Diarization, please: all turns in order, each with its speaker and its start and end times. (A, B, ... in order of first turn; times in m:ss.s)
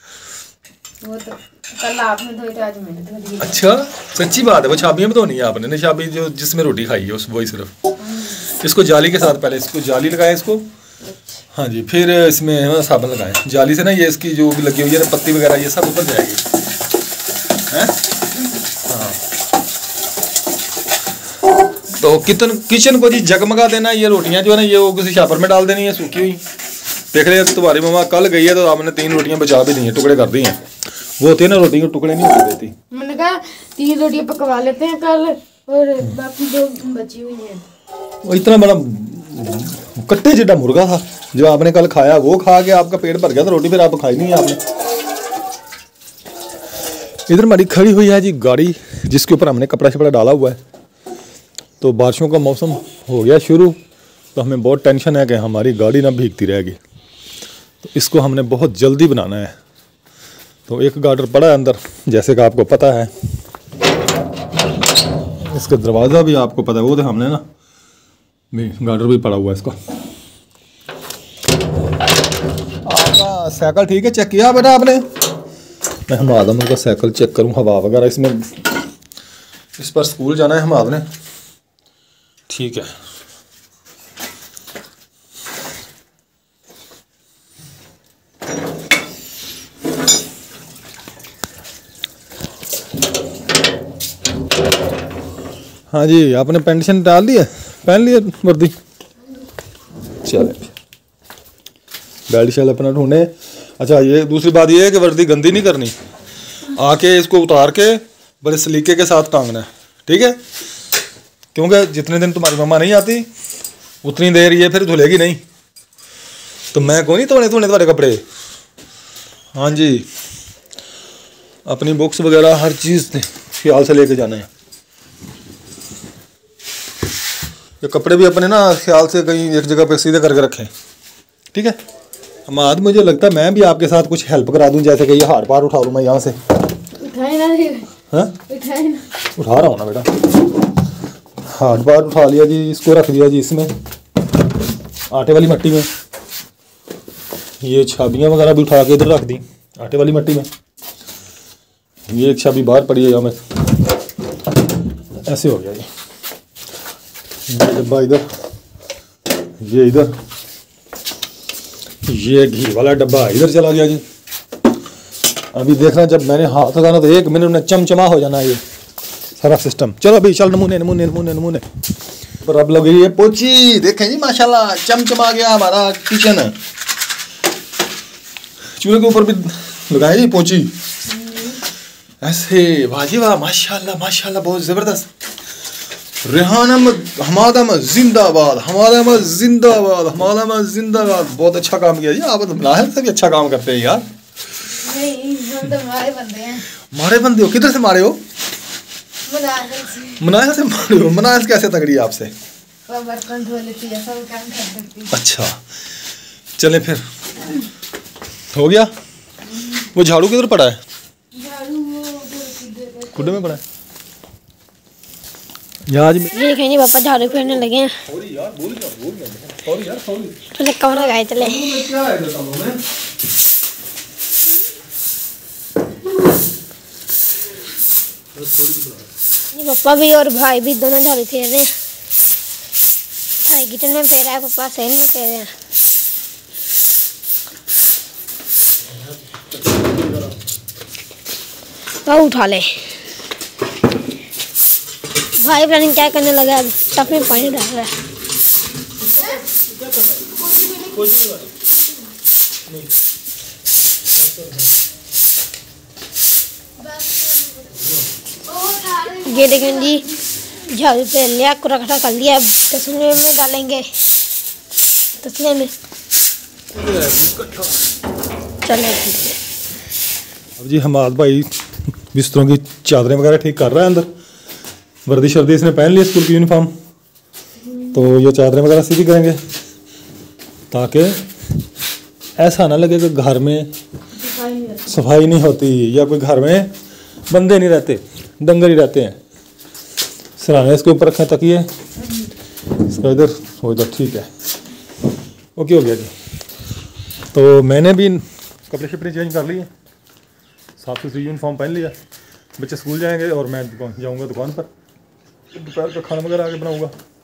0:01.0-0:03.6 A
0:03.4-0:07.7 B
0:08.0-0:08.4 A
0:08.4-0:10.6 B
0:11.0-0:11.4 A
0:11.5-0:16.4 B
0:17.7-0:18.0 B
0:18.8-0:19.2 B
0:22.0-0:26.4 B
0:27.1-0:30.6 B
0:31.2-0:32.7 B
0:32.9-0:37.6 A
0:38.2-0:44.6 B
0:47.3-0:50.6 B
0:51.8-0:53.8 B
0:54.3-0:56.8 B
0:57.8-0:59.5 B
1:00.7-1:03.1 B
1:05.4-1:07.4 B
1:08.5-1:09.7 B
1:12.8-1:15.0 B
1:16.1-1:18.5 B
1:19.8-1:21.0 B
1:22.5-1:22.9 B
1:35.9-1:38.7 B
1:40.2-1:40.7 B
1:42.3-1:45.9 B
1:46.7-1:50.4 B
1:51.5-1:53.3 B
1:54.0-1:55.4 B
1:56.7-1:58.2 B
1:59.5-2:00.0 B
2:01.7-2:04.5 B
2:07.8-2:10.7 B
2:12.5-2:16.4 B
2:17.0-2:17.9 A
2:18.1-2:18.4 B
2:18.5-2:19.1 A
2:19.3-2:20.2 B
2:21.5-2:23.7 B
2:25.1-2:25.9 B
2:27.6-2:30.5 B
2:32.1-2:33.4 B
2:35.2-2:35.9 B
2:37.5-2:38.2 B
2:39.6-2:40.1 B
2:42.0-2:44.0 B
2:45.5-2:48.6 B
2:49.4-2:51.6 B
2:52.4-2:56.5 B
2:58.8-3:00.7 B
3:01.1-3:01.6 A
3:02.2-3:05.1 B
3:06.2-3:14.1 B
3:14.7-3:16.7 A
3:16.9-3:18.2 B
3:19.3-3:20.3 A
3:20.2-3:22.3 B
3:22.9-3:25.1 A
3:25.1-3:25.6 B
3:26.6-3:27.0 B
3:28.5-3:28.9 B
3:29.9-3:30.8 B
3:31.3-3:33.6 A
3:33.1-3:33.6 B
3:35.9-3:36.4 B
3:36.3-3:37.9 C
3:38.0-3:40.5 B
3:40.5-3:41.7 C
3:41.2-3:42.8 B
3:48.3-3:49.1 B
3:49.5-3:51.7 C
3:53.4-3:55.5 C
3:59.3-4:00.3 B
4:02.0-4:02.9 C
4:05.4-4:07.9 C
4:09.1-4:10.3 B
4:09.2-4:09.4 A
4:10.4-4:11.0 A
4:10.9-4:11.5 B
4:12.7-4:12.9 B
4:14.2-4:14.7 B
4:16.8-4:17.8 A
4:18.4-4:20.1 A
4:19.2-4:23.9 C
4:25.2-4:25.7 C
4:26.7-4:27.8 B
4:28.6-4:29.4 C
4:30.6-4:31.5 B
4:32.1-4:34.1 B
4:35.0-4:36.7 B
4:37.9-4:39.4 B
4:40.7-4:41.2 B
4:42.4-4:43.7 B
4:44.1-4:44.8 A
4:44.8-4:46.7 B
4:47.3-4:49.2 B
4:50.4-4:51.7 B
4:52.0-4:52.3 A
4:52.8-4:54.3 B
4:55.6-4:56.1 B
4:57.3-4:59.7 B
5:00.8-5:02.0 B
5:02.6-5:04.7 B
5:05.5-5:06.9 B